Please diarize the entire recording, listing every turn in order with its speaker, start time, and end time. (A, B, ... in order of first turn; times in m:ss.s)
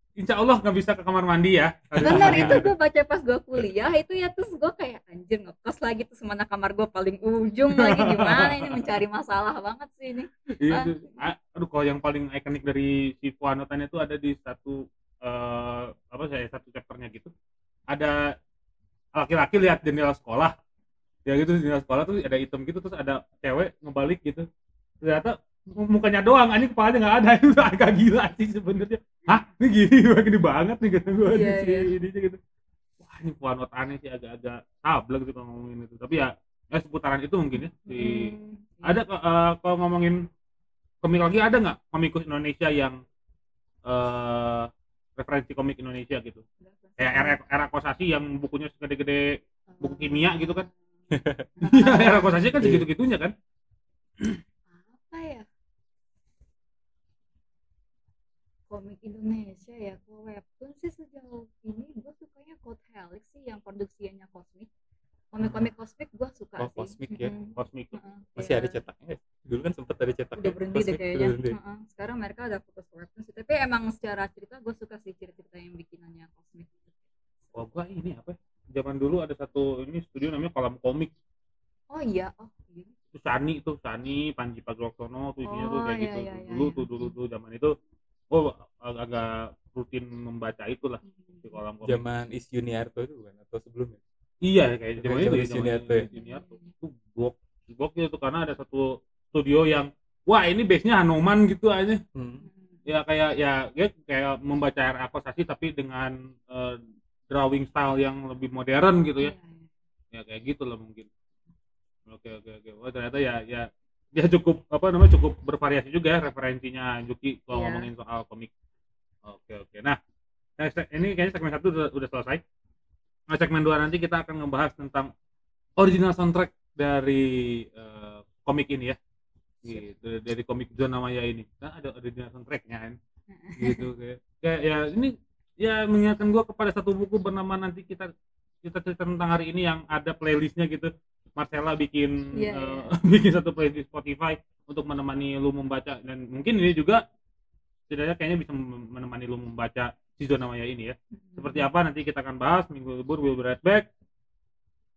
0:00.2-0:02.7 A
0:02.0-0:02.6 B
0:02.0-0:11.2 C
0:07.8-0:08.9 A
0:10.6-0:17.3 A
0:17.9-0:18.3 A
0:19.2-0:20.5 A
0:21.2-0:24.4 A
0:25.0-0:32.4 A
0:31.3-0:31.9 C
0:33.0-0:38.3 A
0:37.8-0:39.0 C
0:38.8-0:40.2 A
0:41.0-0:43.0 A
0:43.8-0:46.4 A
0:46.6-0:47.4 C
0:47.0-0:50.6 A
0:49.7-0:50.7 C
0:51.1-0:51.5 B
0:51.6-0:52.4 C
0:51.7-0:53.3 A
0:52.6-0:52.9 B
0:54.7-0:55.4 C
0:58.7-1:04.7 C
1:05.3-1:08.8 C
1:06.6-1:07.3 B
1:07.6-1:08.0 A
1:08.4-1:11.6 B
1:10.4-1:17.0 C
1:17.5-1:21.1 A
1:21.9-1:22.9 C
1:23.1-1:27.7 A
1:25.4-1:27.1 C
1:28.3-1:32.0 A
1:31.1-1:31.4 C
1:31.8-1:34.0 B
1:34.4-1:42.0 A
1:35.0-1:36.1 B
1:36.0-1:36.7 C
1:42.1-1:42.4 B
1:42.4-1:42.8 C
1:42.8-1:46.8 A
1:47.3-1:49.3 A
1:49.2-1:49.7 C
1:50.1-1:51.1 A
1:52.1-1:58.5 A
1:57.5-1:57.9 C
1:59.2-2:00.0 A
2:00.6-2:02.4 A
2:03.3-2:05.1 A
2:05.8-2:09.0 A
2:09.6-2:13.0 A
2:13.3-2:13.8 C
2:13.6-2:18.1 A
2:18.6-2:27.0 A
2:22.3-2:22.9 C
2:27.9-2:33.8 A
2:31.2-2:31.6 C